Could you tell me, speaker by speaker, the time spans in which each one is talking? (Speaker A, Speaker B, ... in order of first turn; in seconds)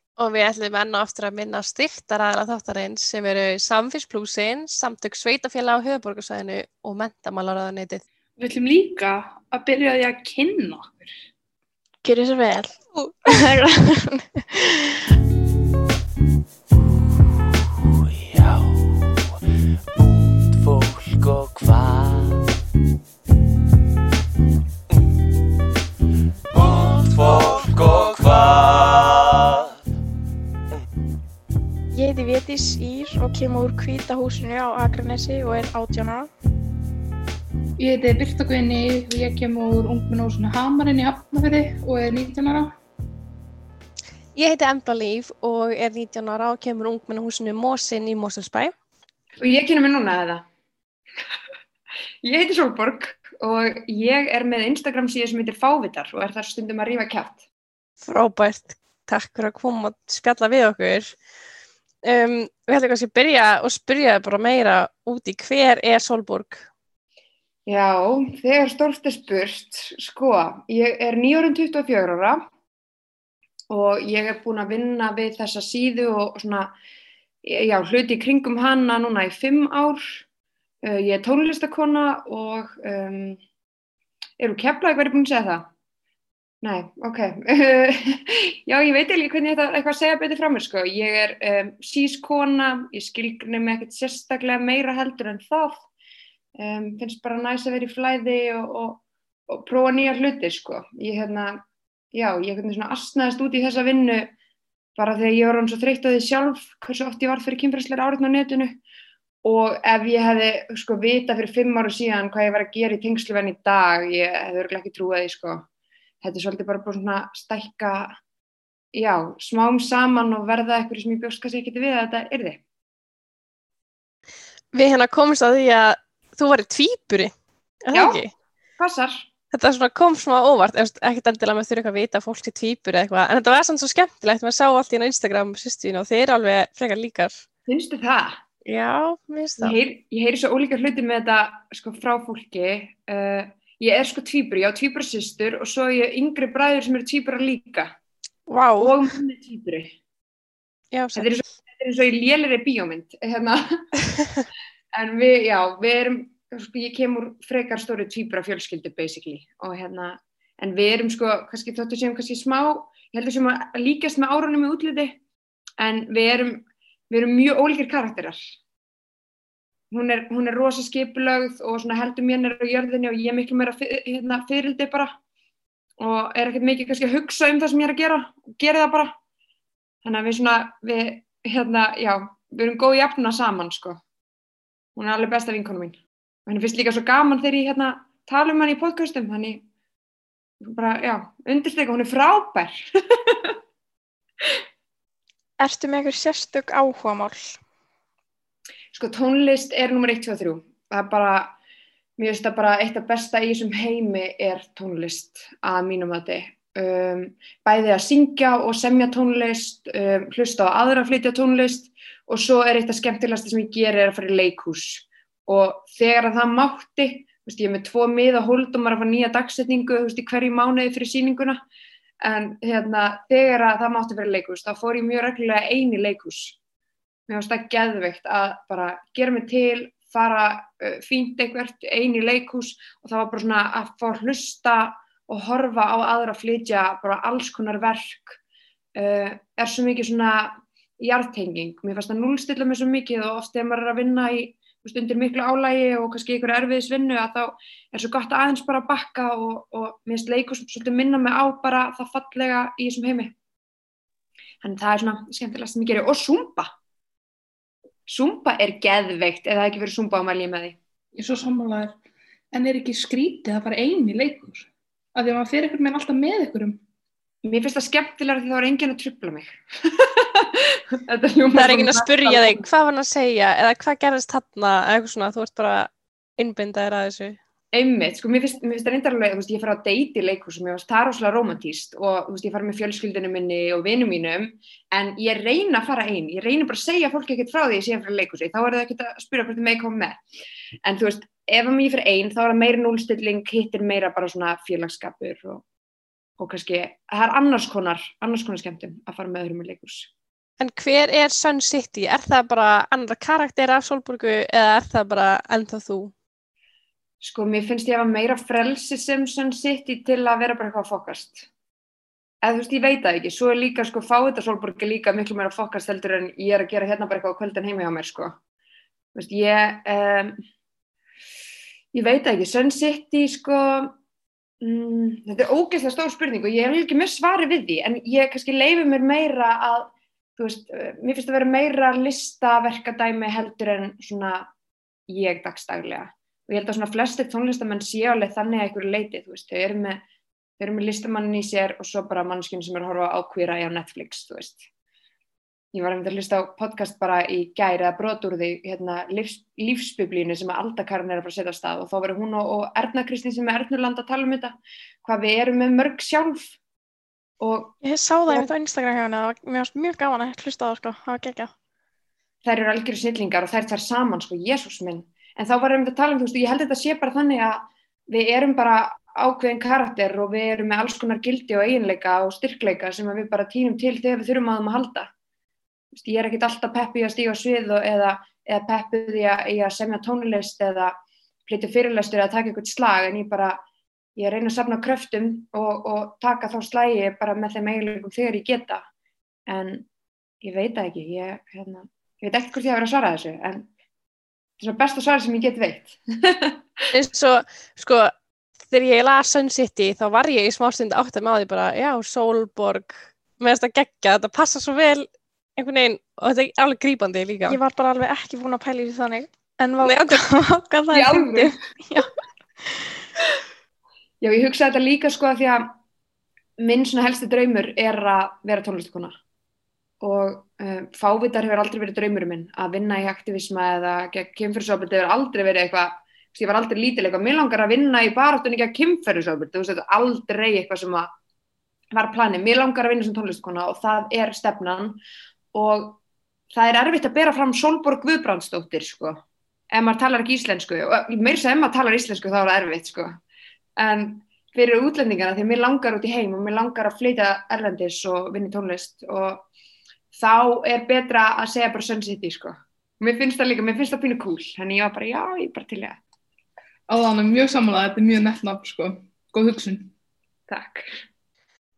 Speaker A: 0.2-8.0, 44.4-48.7, 58.0-61.2, 62.0-66.7, 124.7-127.3, 127.8-128.3, 129.5-137.5, 138.7-139.8, 148.5-149.0, 150.9-151.3, 271.5-277.4, 300.6-306.1, 396.9-398.1, 398.7-407.6, 409.8-410.2
Speaker B: 8.4-11.1, 37.8-42.8, 261.1-262.0, 262.5-266.8, 456.9-459.9
Speaker C: 12.0-15.0, 31.9-36.3, 195.6-197.6, 357.8-361.5, 407.5-412.1
Speaker D: 18.2-18.8, 20.0-22.4, 26.5-29.6
Speaker E: 49.4-50.5, 52.2-57.5, 67.7-72.5, 73.7-76.7, 77.4-80.2, 80.8-83.4, 84.4-85.7, 86.6-95.8, 96.6-101.6, 102.1-104.3, 105.0-108.8, 109.4-115.7, 116.2-118.2, 118.9-122.6, 127.9-128.2, 128.8-129.2, 137.7-138.4, 139.6-147.9, 148.8-149.9, 151.2-153.9, 154.9-165.2, 165.8-168.4, 169.9-175.2, 176.0-179.2, 180.0-184.0, 185.0-189.6, 190.6-193.6, 198.9-201.5, 202.2-221.6, 222.2-226.6, 227.3-238.4, 238.9-253.3, 254.6-256.7, 258.1-260.8, 267.4-272.7, 277.7-290.2, 290.8-295.6, 296.4-300.1, 307.2-311.5, 312.4-318.4, 319.1-320.4, 321.9-323.9, 324.6-334.5, 335.1-340.0, 340.6-344.7, 345.7-356.6, 357.4-357.8, 362.4-375.1, 375.9-380.9, 381.5-383.6, 384.2-388.8, 389.5-389.9, 390.4-393.7, 394.6-396.6, 410.9-411.5, 414.2-415.7, 416.6-419.1, 420.0-431.1, 431.9-435.0, 435.5-436.0, 436.5-439.2, 439.7-443.2, 443.8-449.4, 450.1-456.0, 460.5-460.9